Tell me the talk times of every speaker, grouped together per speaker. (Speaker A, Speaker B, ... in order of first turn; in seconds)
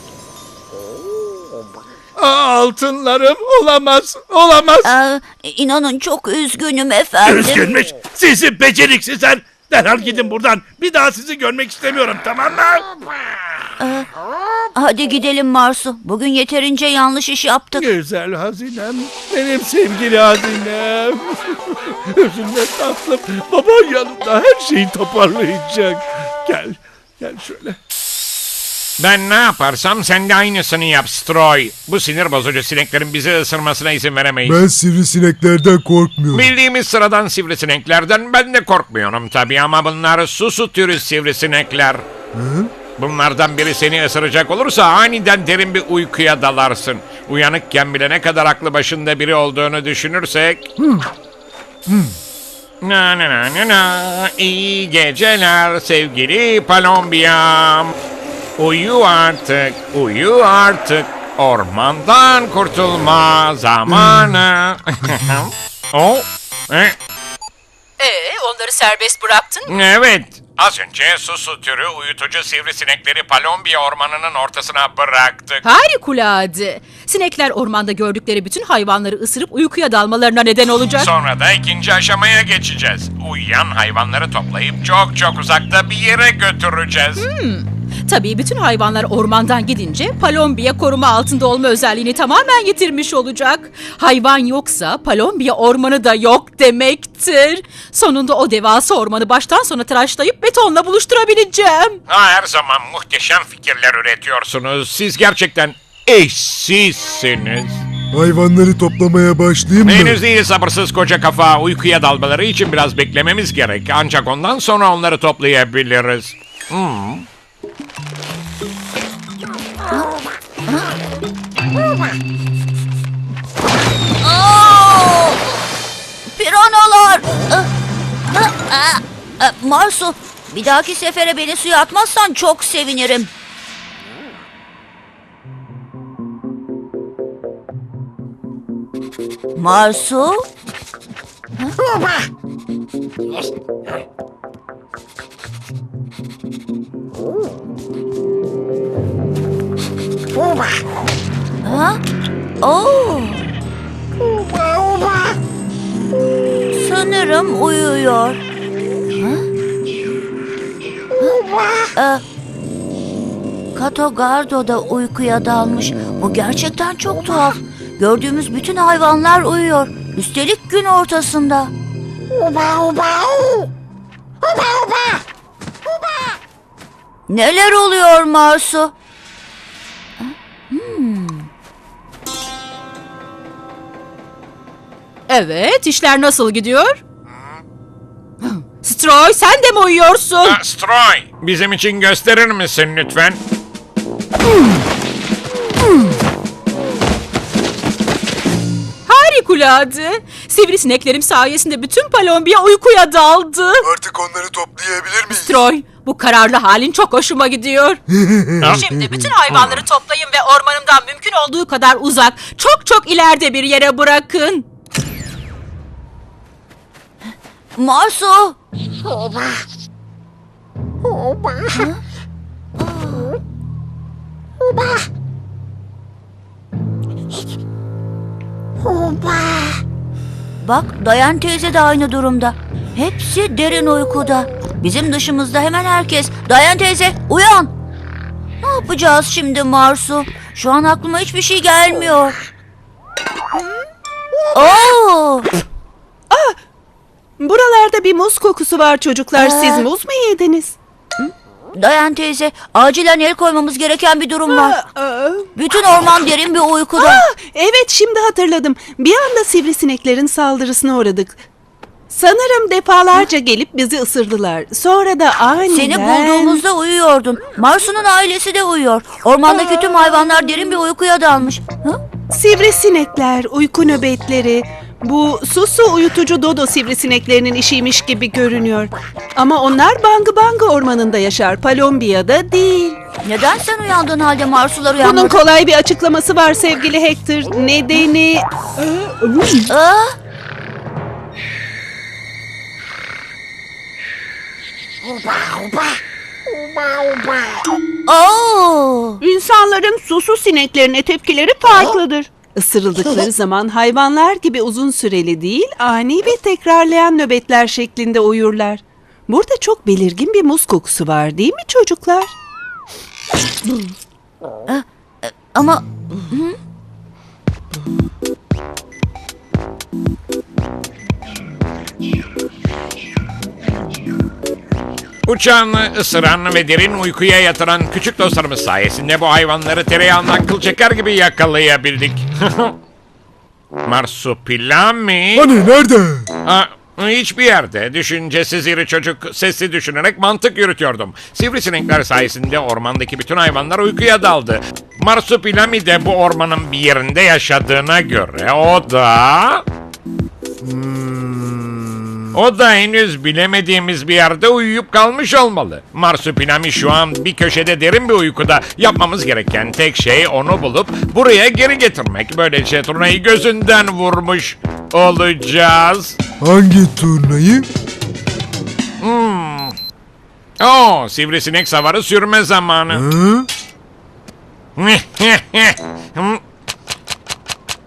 Speaker A: 2.2-4.9, 7.2-12.9, 17.8-27.8
Speaker B: 4.8-7.7, 13.8-14.1, 14.8-17.9, 124.2-125.6, 126.3-127.7, 128.3-133.3, 139.6-140.4, 151.6-152.0, 152.6-153.4, 156.7-158.4, 159.2-159.4, 161.9-162.2, 163.8-171.7, 177.3-178.9, 180.2-181.5, 217.8-218.6, 221.7-222.0, 222.8-223.3, 230.6-237.7, 238.6-242.4, 244.5-245.5, 249.4-249.9, 251.2-254.8, 255.6-257.2, 265.7-272.0, 283.2-285.4, 289.7-290.2, 298.1-299.2, 314.7-316.6
Speaker C: 29.0-34.6, 36.3-42.1, 43.0-50.7, 52.8-57.9, 58.6-67.0, 69.7-75.6, 81.0-87.3, 102.1-107.8, 109.8-117.2, 190.4-193.4, 325.3-332.8, 333.9-335.5, 336.4-349.6, 352.3-366.2, 369.0-369.8, 370.6-373.1, 374.8-376.4
Speaker D: 34.5-36.5, 42.3-42.7, 50.8-51.1, 51.9-52.1, 108.1-110.2, 203.8-205.5, 208.1-208.9, 335.4-336.3, 350.6-352.3, 366.4-367.7, 372.9-373.5
Speaker E: 68.0-69.7, 75.6-81.1, 87.2-102.0, 185.3-187.0, 188.4-190.6, 199.1-203.9, 205.4-208.0, 208.6-214.7
Speaker F: 246.3-246.6, 247.4-250.8, 254.5-255.5, 257.0-261.4, 262.1-266.6, 272.3-283.0, 285.0-289.7, 299.2-312.3